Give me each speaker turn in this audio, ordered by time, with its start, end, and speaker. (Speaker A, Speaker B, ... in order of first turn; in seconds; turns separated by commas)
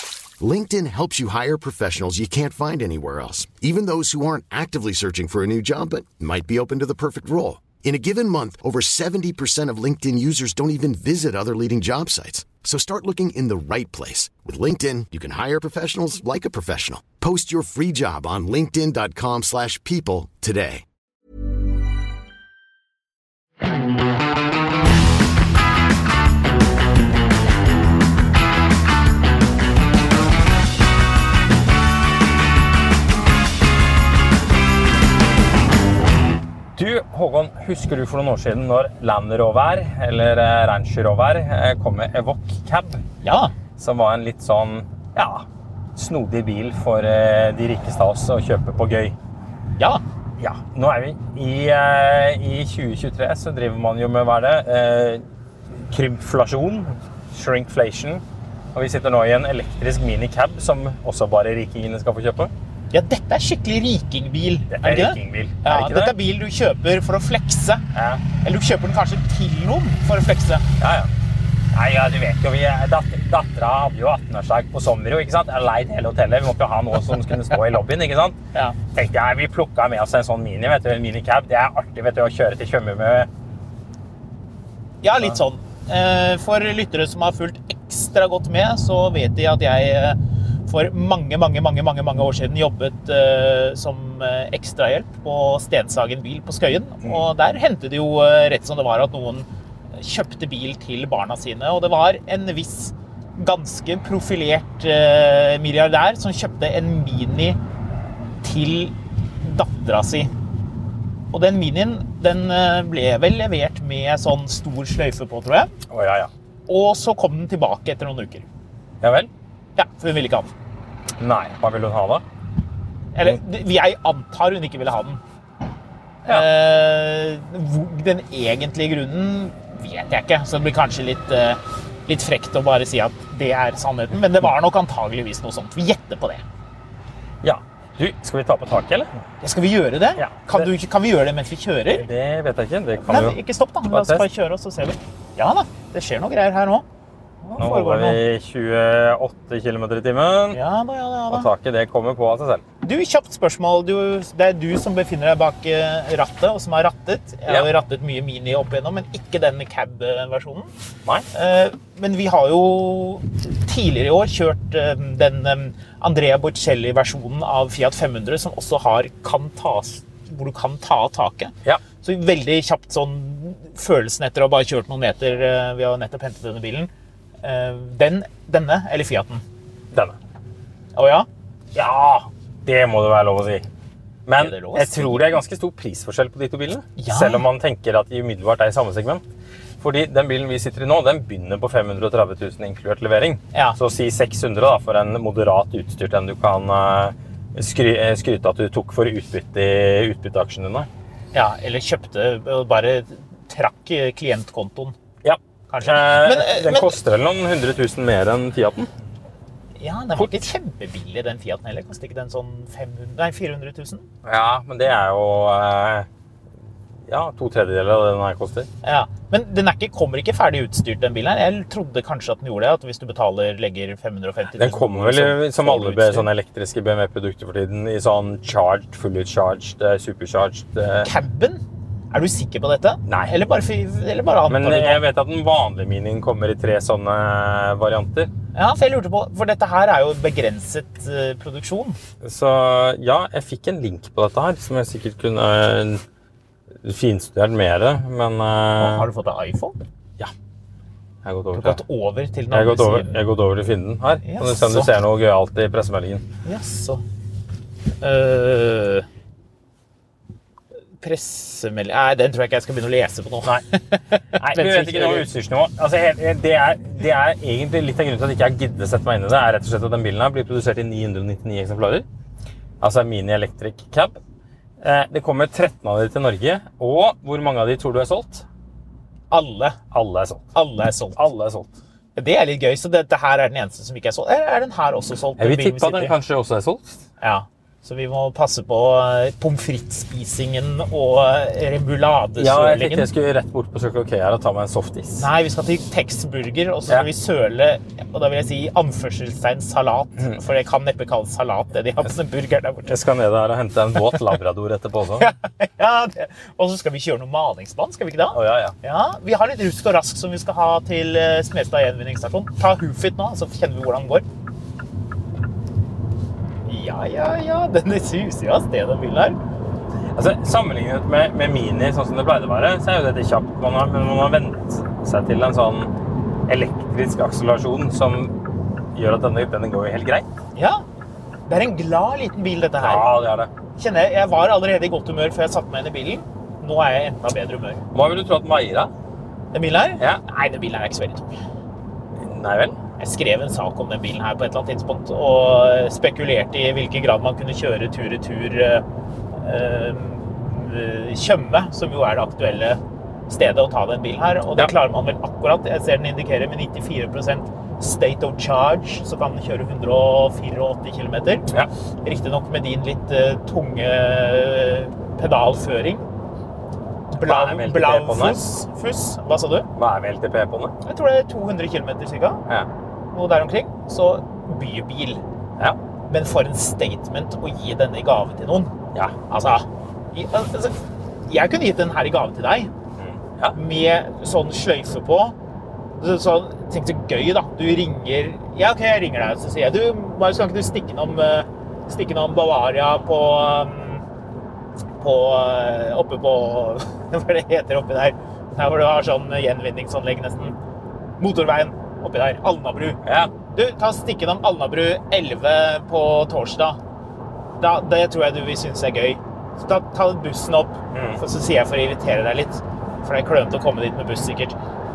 Speaker A: 0.4-20.8, Speaker B: 36.8-43.0, Speaker C: 43.2-43.5, Speaker B: 43.8-45.5, Speaker B: 46.0-49.2, Speaker B: 50.4-58.2, Speaker B: 58.7-62.5, Speaker C: 62.9-67.8, Speaker B: 64.7-66.1, Speaker B: 68.0-68.2, Speaker C: 68.4-70.7, Speaker B: 70.8-71.1, Speaker B: 71.7-78.4, Speaker B: 78.9-83.3, Speaker C: 85.0-107.6, Speaker C: 108.4-110.3, Speaker C: 111.3-115.7, Speaker B: 115.9-116.3, Speaker C: 116.7-118.5, Speaker B: 119.0-119.3, Speaker C: 119.8-120.5, Speaker B: 121.2-122.2, Speaker C: 123.1-125.2, Speaker C: 126.2-136.4, Speaker B: 137.4-139.2, Speaker C: 139.4-142.1, Speaker B: 140.2-140.7, Speaker B: 141.9-143.4, Speaker C: 143.1-146.8, Speaker B: 143.9-144.3, Speaker C: 147.4-148.2, Speaker B: 147.6-150.6, Speaker C: 150.5-151.5, Speaker B: 151.3-152.6, Speaker C: 152.8-160.7, Speaker C: 161.3-176.9, Speaker C: 177.4-179.4, Speaker C: 180.9-181.3, Speaker B: 181.7-183.7, Speaker B: 184.2-189.2, Speaker C: 184.4-185.4, Speaker C: 187.0-187.4, Speaker B: 189.8-200.9, Speaker C: 201.3-204.9, Speaker B: 205.2-208.9, Speaker C: 205.7-207.0, Speaker C: 209.8-214.1, Speaker B: 214.2-216.1, Speaker B: 217.1-218.7, Speaker C: 218.8-226.3, Speaker B: 224.5-231.1, Speaker C: 231.0-231.6, Speaker C: 232.1-235.0, Speaker B: 233.1-233.3, Speaker B: 234.5-238.3, Speaker C: 238.5-242.0, Speaker B: 242.2-246.0, Speaker B: 246.8-249.1, Speaker C: 248.8-249.8, Speaker B: 251.2-251.8, Speaker C: 251.6-253.2, Speaker B: 252.5-256.2, Speaker C: 254.2-254.9, Speaker C: 256.4-257.0, Speaker C: 258.0-259.1, Speaker C: 261.0-265.3, Speaker B: 264.4-272.1, Speaker B: 272.8-274.2, Speaker B: 274.8-278.4, Speaker C: 279.3-279.8, Speaker B: 279.9-280.5, Speaker C: 280.5-281.2, Speaker B: 281.2-281.7, Speaker C: 282.2-286.1, Speaker B: 285.4-287.0, Speaker C: 287.2-293.1, Speaker B: 292.4-295.3, Speaker C: 295.2-303.0, Speaker B: 302.9-305.3, Speaker C: 305.2-314.2, Speaker B: 308.3-308.8, Speaker C: 316.7-319.4, Speaker B: 320.1-325.9, Speaker B: 326.5-328.3, Speaker B: 328.9-330.3, Speaker C: 330.6-330.8, Speaker C: 331.5-333.1, Speaker B: 332.8-333.5, Speaker C: 333.8-337.8, Speaker B: 337.9-338.9, Speaker C: 339.5-341.3, Speaker B: 342.2-342.8, Speaker C: 343.0-348.8, Speaker C: 349.4-361.5, Speaker C: 362.0-366.1, Speaker C: 367.1-369.7, Speaker B: 367.1-368.4, Speaker B: 369.8-370.8, Speaker C: 370.8-372.4, Speaker C: 373.1-375.2, Speaker C: 376.1-378.7, Speaker C: 379.3-380.8, Speaker C: 381.3-382.7, Speaker B: 383.0-383.6, Speaker C: 383.5-385.4, Speaker C: 386.0-394.0, Speaker C: 395.0-400.6, Speaker C: 401.2-403.0, Speaker B: 403.0-403.3, Speaker C: 403.5-406.8, Speaker C: 407.6-414.6, Speaker B: 410.9-411.2